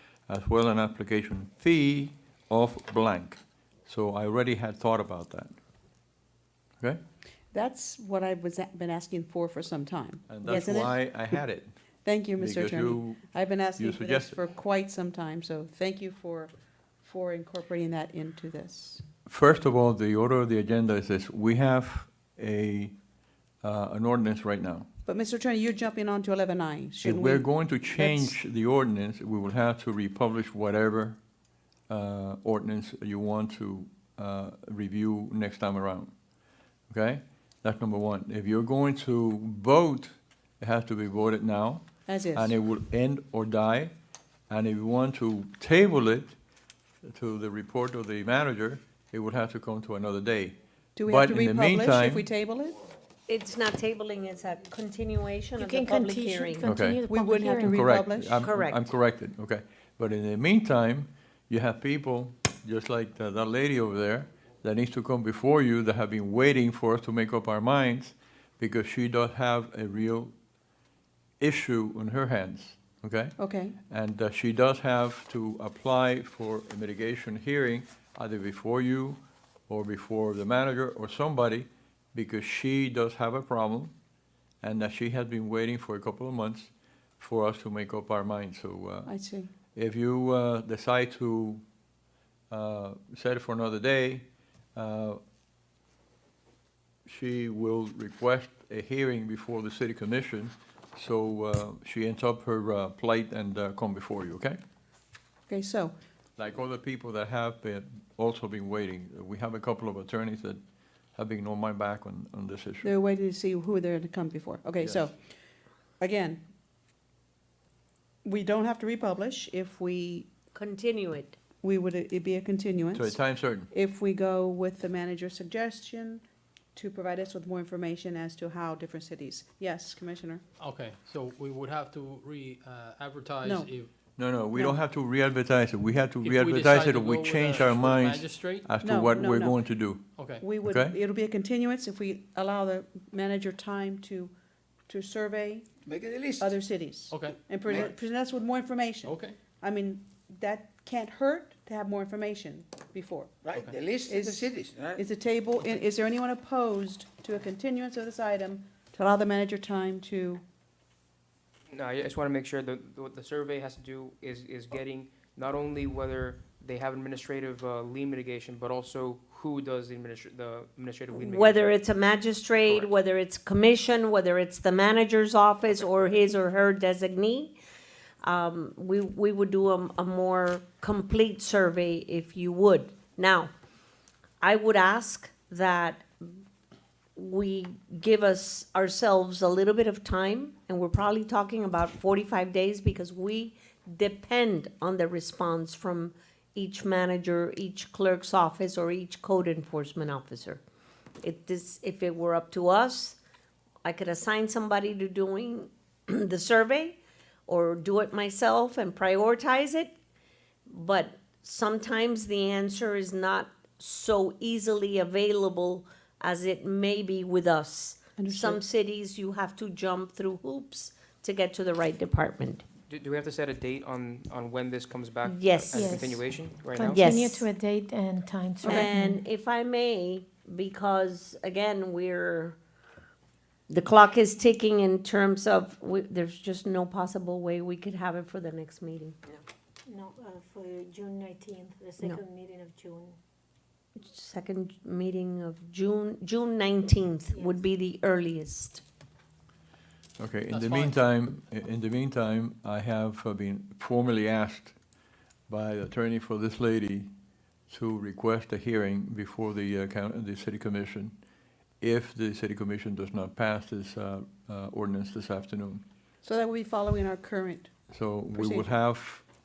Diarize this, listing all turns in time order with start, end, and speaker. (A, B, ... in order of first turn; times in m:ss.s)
0:00.3-0:05.6 A
0:07.5-0:11.3 B
0:10.3-0:11.7 A
0:12.0-0:16.5 B
0:12.4-0:13.2 A
0:13.8-0:14.4 A
0:17.0-0:19.0 B
0:19.3-0:22.9 A
0:23.6-0:24.9 A
0:25.1-0:28.4 B
0:27.0-0:31.2 A
0:31.9-0:36.1 A
0:36.9-0:43.9 A
0:42.1-0:42.6 B
0:44.5-0:46.4 A
0:47.1-0:52.2 A
0:51.0-0:52.8 B
0:53.3-0:56.7 C
0:55.6-0:57.8 D
0:56.6-0:57.0 A
0:57.1-0:58.4 B
0:57.6-1:10.3 A
0:58.4-0:58.9 C
1:11.4-1:13.4 A
1:13.4-1:13.8 B
1:13.9-1:23.9 A
1:24.6-1:29.1 A
1:29.1-1:29.5 B
1:29.7-1:31.6 A
1:32.5-1:35.2 A
1:37.1-1:44.6 A
1:45.5-1:45.9 B
1:46.4-1:50.6 A
1:51.2-1:52.9 A
1:52.8-1:55.2 B
1:54.8-1:55.1 A
1:56.0-1:56.4 B
1:58.2-2:00.3 B
2:00.5-2:01.4 C
2:01.6-2:03.2 B
2:03.0-2:03.7 A
2:03.7-2:06.2 B
2:06.8-2:10.4 B
2:10.6-2:13.9 E
2:13.4-2:13.7 B
2:14.2-2:20.0 A
2:14.5-2:14.8 B
2:16.2-2:18.7 E
2:18.8-2:19.6 B
2:20.2-2:20.4 E
2:20.4-2:24.3 B
2:20.6-2:21.0 A
2:24.9-2:25.7 B
2:25.9-2:26.5 F
2:26.4-2:33.3 B
2:27.1-2:27.4 E
2:29.1-2:29.4 E
2:33.5-2:35.0 F
2:34.0-2:40.4 B
2:41.7-2:51.8 G
2:51.1-2:57.5 C
2:52.6-2:52.9 G
2:58.2-3:03.5 C
3:04.4-3:06.4 C
3:07.2-3:20.6 C
3:21.2-3:23.2 C
3:23.8-3:29.9 C
3:30.7-3:42.6 C
3:38.2-3:38.6 B
3:42.9-3:47.0 G
3:45.2-3:46.0 C
3:45.7-3:46.2 D
3:46.8-3:47.5 C
3:46.8-3:49.2 D
3:48.6-3:48.9 B
3:48.6-3:52.6 C
3:53.7-3:59.2 C
3:59.9-4:03.2 D
4:04.0-4:08.8 C
4:07.3-4:07.6 D
4:10.2-4:14.8 A
4:10.5-4:11.0 E
4:15.5-4:17.1 A
4:17.7-4:21.1 A
4:21.8-4:25.8 A
4:26.2-4:27.7 B
4:27.9-4:29.2 A
4:28.3-4:28.7 B